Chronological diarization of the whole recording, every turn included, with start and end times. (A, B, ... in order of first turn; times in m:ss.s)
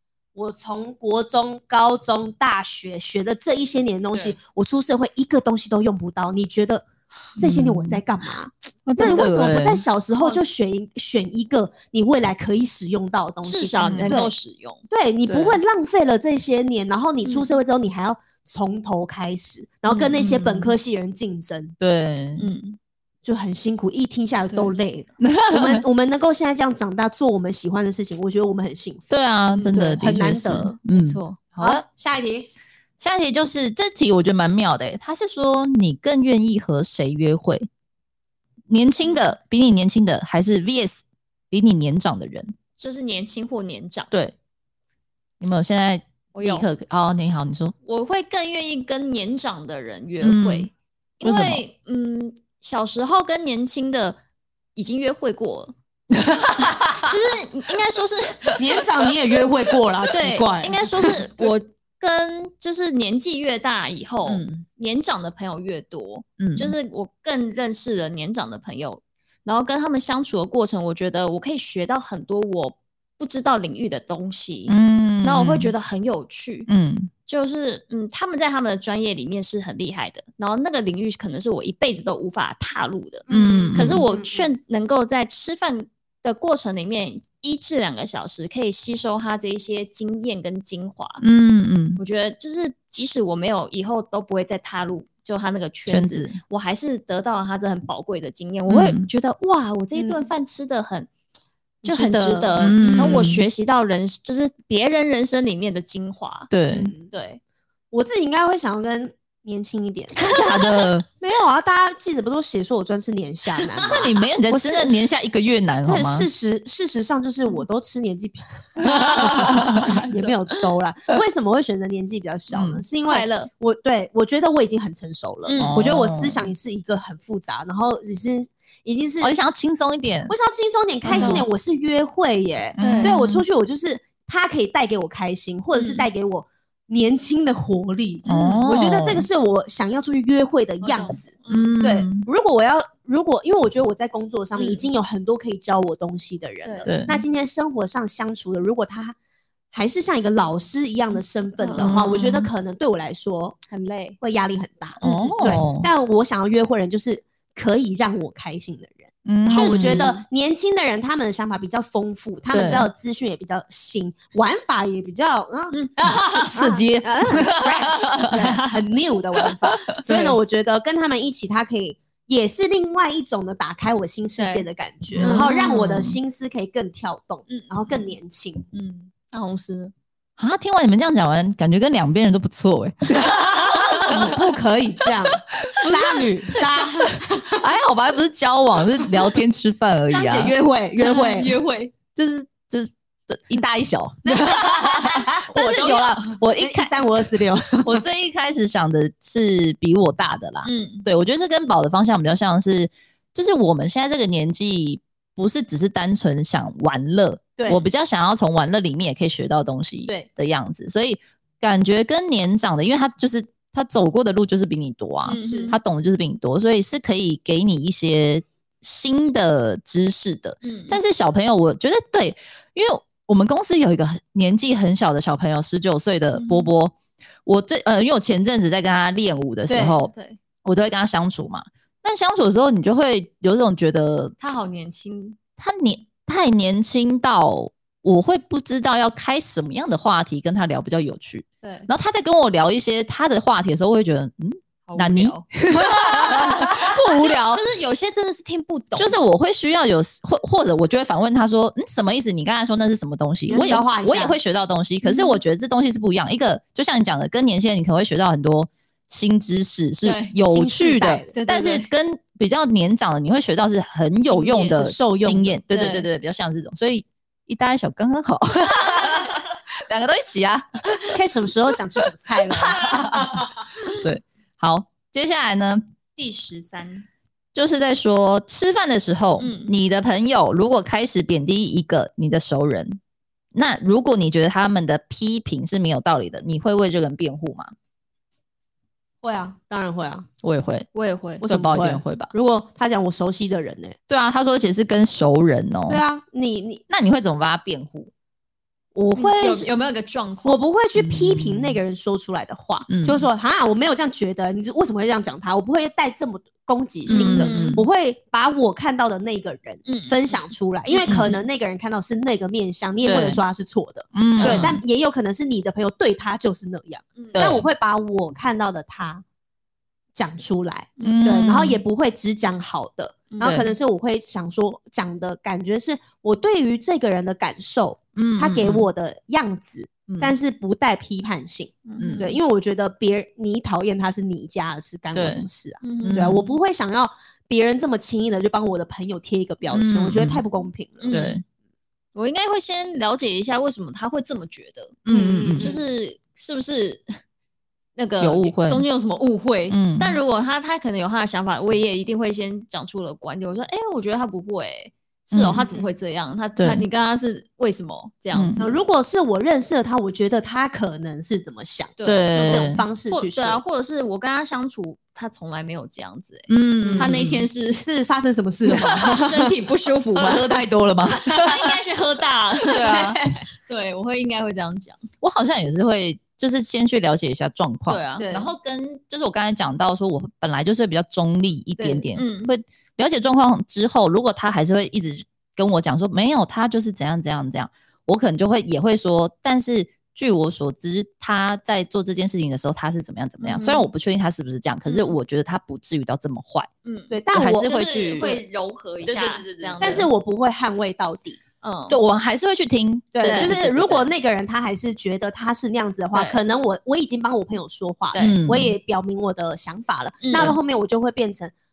0:00.3-0:06.8 A
0:07.4-0:14.3 A
0:07.4-0:08.0 B
0:08.9-0:09.3 C
0:09.0-0:09.8 B
0:13.4-0:14.8 C
0:13.8-0:14.2 B
0:14.9-0:21.7 A
0:15.3-0:15.6 B
0:17.2-0:17.5 C
0:19.9-0:20.2 C
0:20.2-0:20.7 B
0:21.8-0:22.4 B
0:22.4-0:22.8 C
0:23.2-0:29.1 A
0:25.2-0:25.8 B
0:29.1-0:31.8 B
0:29.5-0:30.0 C
0:29.7-0:30.8 A
0:30.9-0:31.4 C
0:31.6-0:32.5 A
0:33.0-0:37.7 B
0:38.7-0:42.5 B
0:42.8-0:44.1 C
0:45.4-0:47.7 B
0:46.3-0:46.7 C
0:47.8-0:54.2 C
0:50.2-0:50.7 B
0:51.2-0:51.6 B
0:54.8-0:55.7 C
0:56.3-0:57.1 B
0:56.9-0:58.6 C
0:58.6-1:01.2 A
1:00.1-1:16.7 C
1:04.2-1:04.6 B
1:06.4-1:06.7 B
1:14.7-1:15.7 B
1:16.7-1:17.1 B
1:17.3-1:31.2 C
1:23.3-1:24.5 A
1:23.3-1:24.0 B
1:31.2-1:32.0 B
1:32.0-1:41.1 C
1:35.9-1:36.4 B
1:38.7-1:39.1 B
1:39.9-1:40.2 A
1:41.8-1:43.3 A
1:41.8-1:46.5 C
1:42.6-1:43.4 B
1:46.5-1:46.9 B
1:46.7-1:47.1 A
1:47.1-1:47.4 C
1:47.9-1:50.2 A
1:50.2-1:51.0 B
1:51.2-1:54.9 A
1:53.8-1:56.3 B
1:55.8-2:09.4 A
1:58.8-2:00.0 C
1:59.4-1:59.8 B
2:02.5-2:02.8 B
2:03.1-2:03.5 C
2:05.4-2:05.8 C
2:05.6-2:06.4 B
2:09.2-2:10.3 B
2:10.3-2:29.2 A
2:11.1-2:11.5 B
2:11.1-2:11.5 C
2:12.8-2:13.4 B
2:12.8-2:13.2 C
2:15.7-2:16.1 C
2:18.3-2:18.6 C
2:18.3-2:19.3 B
2:20.8-2:21.8 C
2:21.5-2:22.2 B
2:24.6-2:24.8 C
2:26.6-2:26.9 C
2:26.8-2:27.2 B
2:29.7-2:33.6 A
2:31.6-2:32.4 C
2:31.8-2:32.4 B
2:33.7-2:34.2 C
2:34.2-2:58.6 A
2:35.0-2:35.9 B
2:35.0-2:35.6 C
2:39.2-2:40.1 B
2:39.5-2:40.2 C
2:42.5-2:42.9 B
2:45.7-2:46.7 C
2:46.1-2:48.4 B
2:47.3-2:48.8 C
2:49.4-2:50.4 C
2:54.4-2:54.6 C
2:55.1-2:56.2 B
2:55.2-2:55.8 C
2:57.5-2:58.1 C
2:58.7-2:59.9 C
3:00.4-3:04.4 B
3:03.3-3:04.3 C
3:03.9-3:07.6 A
3:05.7-3:06.1 B
3:05.8-3:06.2 C
3:06.7-3:07.2 C
3:07.5-3:10.5 B
3:10.1-3:11.6 A
3:11.0-3:11.9 C
3:12.1-3:16.9 B
3:14.3-3:16.3 C
3:14.4-3:18.0 A
3:17.8-3:50.1 B
3:20.6-3:21.0 C
3:27.6-3:27.8 A
3:35.2-3:35.8 C
3:35.4-3:35.7 A
3:40.6-3:41.0 C
3:46.3-3:46.7 C
3:49.7-3:50.0 A
3:50.1-3:50.4 C
3:50.6-3:54.4 B
3:54.4-3:55.4 C
3:55.6-4:07.6 B
4:01.6-4:01.9 C
4:04.9-4:09.2 C
4:09.0-4:31.1 B
4:13.5-4:14.4 A
4:13.5-4:13.8 C
4:15.0-4:15.4 C
4:20.0-4:20.4 C
4:20.4-4:21.3 A
4:21.3-4:21.9 C
4:24.2-4:24.8 C
4:24.7-4:25.6 A
4:25.7-4:26.0 C
4:31.1-4:33.4 A
4:32.7-4:35.8 B
4:32.7-4:34.0 C
4:36.2-4:37.1 C
4:37.5-4:43.0 B
4:39.4-4:39.7 C
4:43.5-4:47.7 B
4:49.2-4:50.3 A
4:50.4-4:50.9 B
4:50.9-4:51.4 C
4:51.4-4:54.0 A
4:51.4-4:52.3 B
4:54.1-4:56.0 B
4:55.9-4:56.8 A
4:56.9-4:58.1 B
4:58.9-4:59.7 A
4:59.2-5:00.6 C
5:00.4-5:19.2 A
5:01.0-5:01.8 B
5:02.9-5:03.3 B
5:07.1-5:07.8 B
5:07.1-5:07.8 C
5:09.8-5:11.4 C
5:11.0-5:11.3 B
5:13.0-5:13.4 B
5:14.1-5:14.8 B
5:14.4-5:14.7 C
5:17.3-5:17.6 B
5:20.1-5:41.2 A
5:21.0-5:21.3 C
5:21.0-5:21.8 B
5:23.3-5:23.6 C
5:23.4-5:23.7 B
5:28.2-5:28.9 B
5:30.1-5:30.3 B
5:31.9-5:32.3 C
5:32.0-5:32.3 B
5:35.1-5:35.4 B
5:35.8-5:36.4 C
5:36.0-5:36.4 B
5:39.7-5:40.4 B
5:41.0-5:41.4 C
5:41.1-5:41.4 B
5:42.1-5:47.2 C
5:45.0-5:45.7 B
5:45.1-5:45.8 A
5:48.0-5:58.8 C
5:48.2-5:48.8 B
5:49.7-5:50.2 B
5:55.3-5:55.6 B
5:55.5-5:55.9 A
5:56.6-5:56.8 B
5:58.3-5:58.6 B
5:58.6-6:03.6 A
6:02.0-6:07.9 C
6:02.0-6:02.8 B
6:06.5-6:07.4 B
6:06.8-6:07.2 A
6:07.8-6:09.5 A
6:08.7-6:15.0 C
6:08.7-6:09.0 B
6:10.1-6:11.7 B
6:12.7-6:13.2 B
6:15.2-6:36.7 B
6:17.9-6:18.2 C
6:18.2-6:18.5 A
6:21.8-6:22.0 A
6:22.1-6:22.5 C
6:33.4-6:33.8 C
6:34.8-6:35.2 C
6:36.8-6:40.1 C
6:37.1-6:38.3 A
6:37.3-6:38.4 B
6:39.0-6:40.0 B
6:39.8-6:41.4 A
6:41.6-6:42.0 C
6:41.9-6:44.1 B
6:43.1-6:51.5 A
6:43.2-6:43.5 C
6:46.1-6:46.4 C
6:48.1-6:48.4 C
6:48.2-6:48.7 B
6:50.2-6:50.6 C